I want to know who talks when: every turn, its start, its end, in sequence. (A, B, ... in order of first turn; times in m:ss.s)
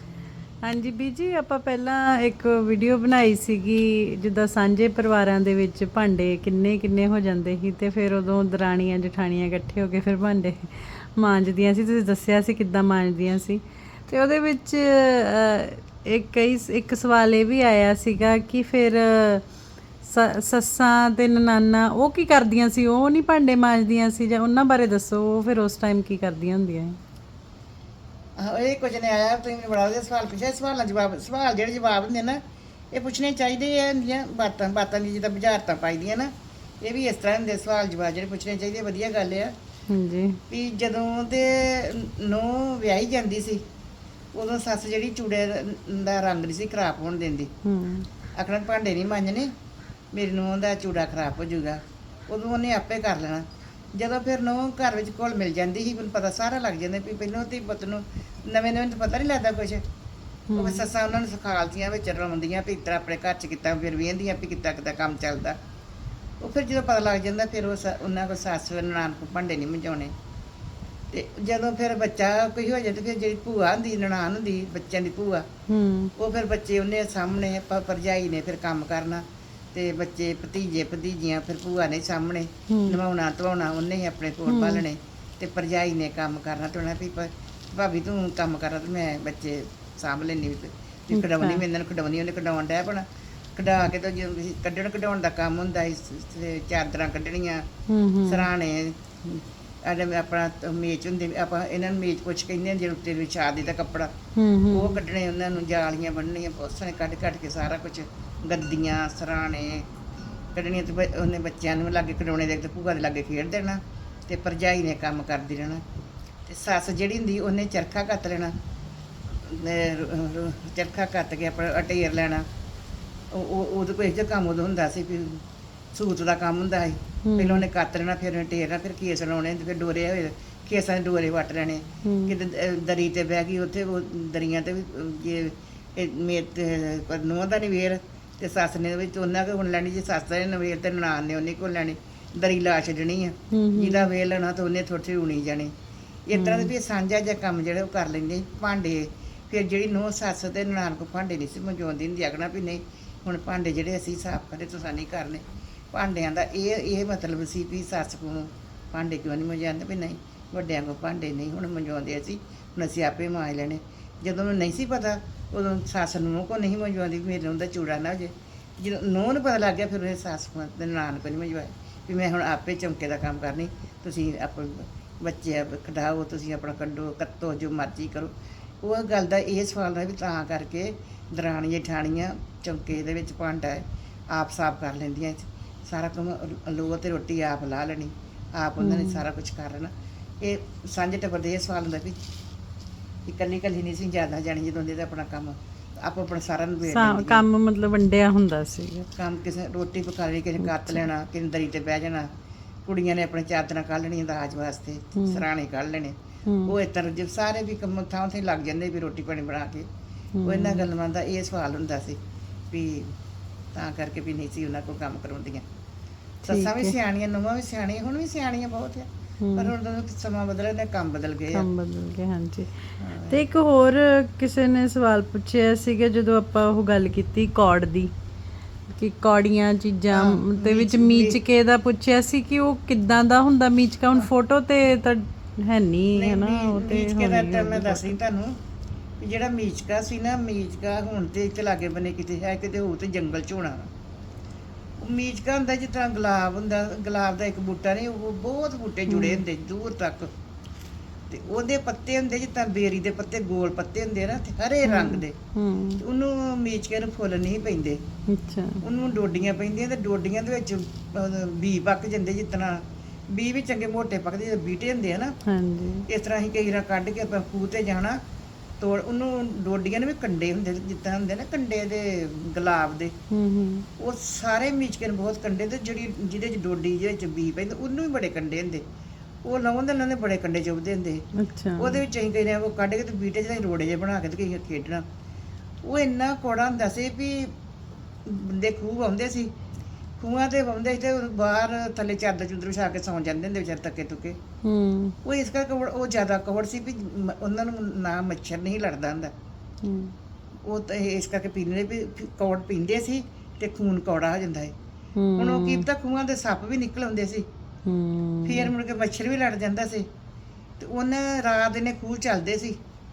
0:00.6-0:19.4 A
0:20.0-0:27.0 A
0:28.4-0:32.4 B
0:32.9-0:36.3 B
0:36.8-0:39.5 B
0:39.9-0:40.4 A
0:40.5-0:43.6 B
0:44.3-0:47.5 B
0:47.6-0:48.1 A
0:48.4-0:49.5 B
0:50.1-0:59.8 B
1:00.5-1:00.8 A
1:00.6-1:05.6 B
1:06.4-1:10.1 B
1:11.1-1:15.4 B
1:15.7-1:16.1 A
1:16.2-1:37.6 B
1:22.7-1:23.0 A
1:24.4-1:24.8 A
1:31.1-1:31.6 A
1:37.9-1:38.5 A
1:38.2-1:44.1 B
1:44.4-1:45.0 A
1:44.7-1:49.8 B
1:50.5-1:55.8 B
1:56.5-1:58.5 B
1:59.4-2:02.4 B
2:03.3-2:05.4 B
2:05.9-2:25.7 B
2:07.2-2:07.6 A
2:12.0-2:12.3 A
2:23.5-2:24.1 A
2:26.3-3:12.2 B
2:26.3-2:26.7 A
3:08.8-3:09.2 A
3:13.2-3:17.4 B
3:16.8-3:19.1 A
3:19.2-3:22.3 B
3:20.6-3:21.0 A
3:22.8-3:26.1 B
3:25.2-3:25.4 A
3:26.4-3:26.7 A
3:26.6-3:29.9 B
3:30.3-3:30.8 A
3:30.4-3:32.2 B
3:32.7-3:33.1 B
3:33.7-3:35.6 B
3:36.4-3:37.0 A
3:36.4-3:41.7 B
3:39.4-3:39.7 A
3:41.5-3:48.1 A
3:43.0-3:43.4 B
3:48.9-3:58.2 A
3:50.1-3:51.4 B
3:56.1-3:58.5 B
3:59.2-4:03.9 B
4:05.0-4:10.3 B
4:09.1-4:09.4 A
4:11.3-4:15.3 B
4:14.8-4:16.0 A
4:16.0-4:18.0 B
4:18.3-4:18.8 A
4:18.8-4:25.3 B
4:25.5-4:26.0 A
4:26.1-4:28.2 B
4:28.8-4:33.1 B
4:33.3-4:33.9 A
4:34.0-4:38.8 B
4:39.4-4:41.2 B
4:41.4-4:42.0 A
4:41.8-4:45.0 B
4:45.8-4:47.5 B
4:48.2-4:49.5 B
4:50.2-4:54.4 B
4:54.6-4:55.2 A
4:55.2-4:59.3 B
4:59.8-5:00.1 A
5:00.6-5:04.7 B
5:05.2-5:05.8 A
5:05.4-5:07.4 B
5:07.8-5:08.7 A
5:08.4-5:10.0 B
5:10.8-5:12.8 B